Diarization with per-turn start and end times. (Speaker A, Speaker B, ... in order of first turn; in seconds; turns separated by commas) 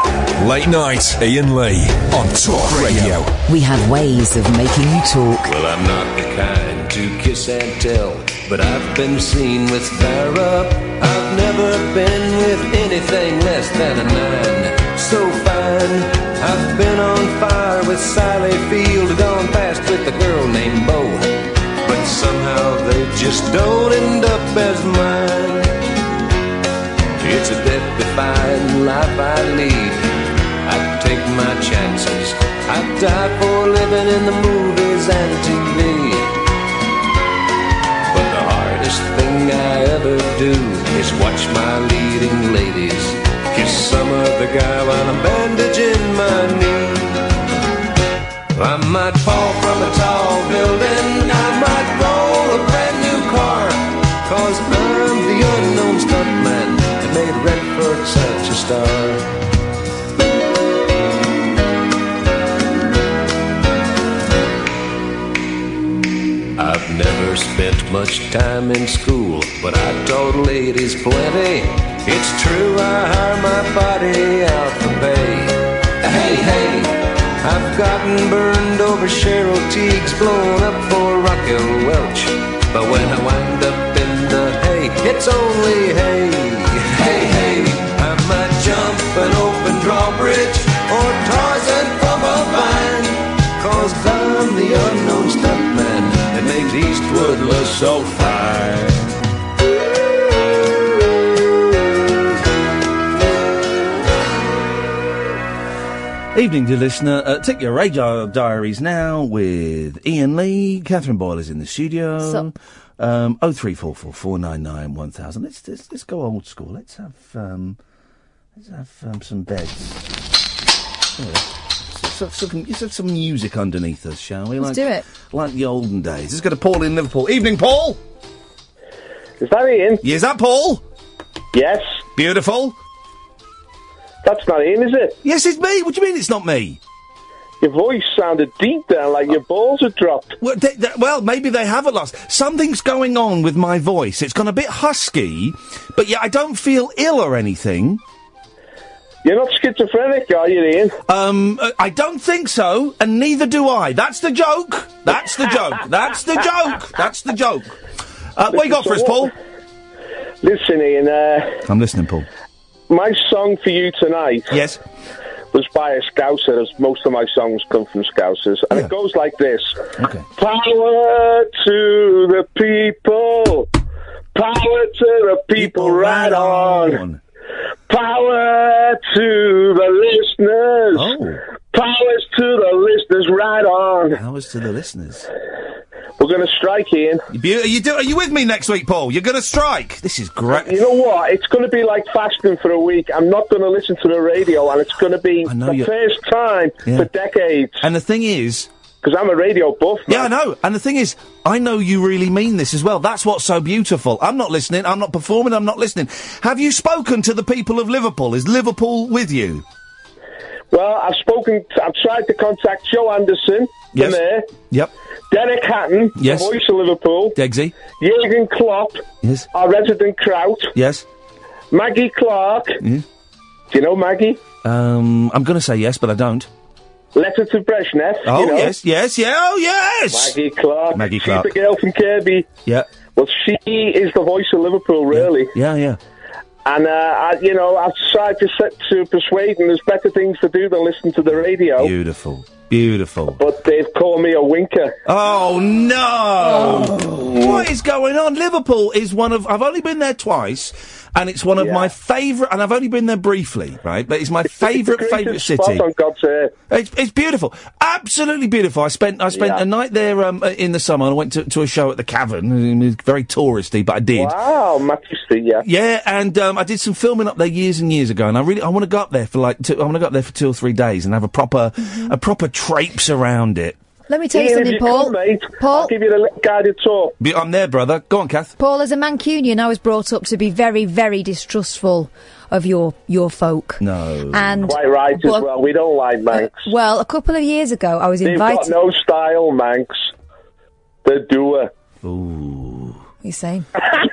Speaker A: 0.4-3.3, Speaker B: 3.5-5.5, Speaker C: 5.4-25.7, Speaker C: 27.2-30.1, Speaker C: 30.6-36.4, Speaker C: 38.1-47.2, Speaker C: 48.5-59.3, Speaker C: 66.5-98.1, Speaker D: 97.4-99.1, Speaker D: 106.3-117.8, Speaker D: 118.5-120.1, Speaker D: 121.2-128.0, Speaker E: 124.6-125.0, Speaker F: 129.4-130.0, Speaker D: 130.0-130.8, Speaker F: 131.5-132.0, Speaker D: 132.2-132.8, Speaker F: 134.2-135.2, Speaker D: 135.2-136.8, Speaker F: 137.6-140.3, Speaker D: 140.4-148.0, Speaker F: 149.2-150.9, Speaker D: 151.1-157.7, Speaker D: 158.3-159.3, Speaker F: 158.5-159.3, Speaker F: 160.4-161.6, Speaker D: 161.7-162.3, Speaker F: 162.9-164.5, Speaker D: 164.5-164.8, Speaker F: 165.5-169.8, Speaker D: 170.0-170.3, Speaker F: 170.4-173.7, Speaker F: 174.3-177.0, Speaker D: 175.6-177.2, Speaker F: 177.9-181.1, Speaker D: 180.9-181.4, Speaker F: 181.7-184.2, Speaker D: 184.1-185.3, Speaker F: 186.2-187.2, Speaker D: 187.3-190.8, Speaker F: 190.5-197.8, Speaker D: 195.4-195.9, Speaker D: 197.8-198.7, Speaker F: 199.0-200.3, Speaker D: 200.1-209.6, Speaker F: 210.7-214.4, Speaker D: 213.9-214.2, Speaker F: 215.3-217.3, Speaker D: 216.2-216.5, Speaker D: 217.3-217.7, Speaker F: 217.9-220.7, Speaker D: 219.2-219.5, Speaker D: 220.7-221.0, Speaker F: 221.7-222.8, Speaker F: 223.7-224.4, Speaker D: 224.6-226.5, Speaker F: 227.1-228.7, Speaker D: 228.2-230.3, Speaker F: 230.1-232.5, Speaker D: 230.9-231.5, Speaker F: 233.2-235.5, Speaker D: 235.1-236.0, Speaker F: 236.6-241.9, Speaker D: 241.8-243.4, Speaker F: 243.4-244.9, Speaker D: 245.1-255.8, Speaker F: 251.6-251.9, Speaker F: 254.6-256.5, Speaker D: 256.7-264.3, Speaker F: 259.3-259.6, Speaker F: 264.1-265.6, Speaker D: 265.6-273.8, Speaker E: 271.8-272.1, Speaker E: 274.1-275.9, Speaker F: 274.3-277.1, Speaker D: 277.2-278.5, Speaker E: 278.6-285.5, Speaker D: 283.8-284.7, Speaker F: 284.6-286.7, Speaker E: 286.3-288.7, Speaker F: 288.2-290.1, Speaker F: 291.0-291.7, Speaker D: 292.0-293.0, Speaker E: 293.2-293.7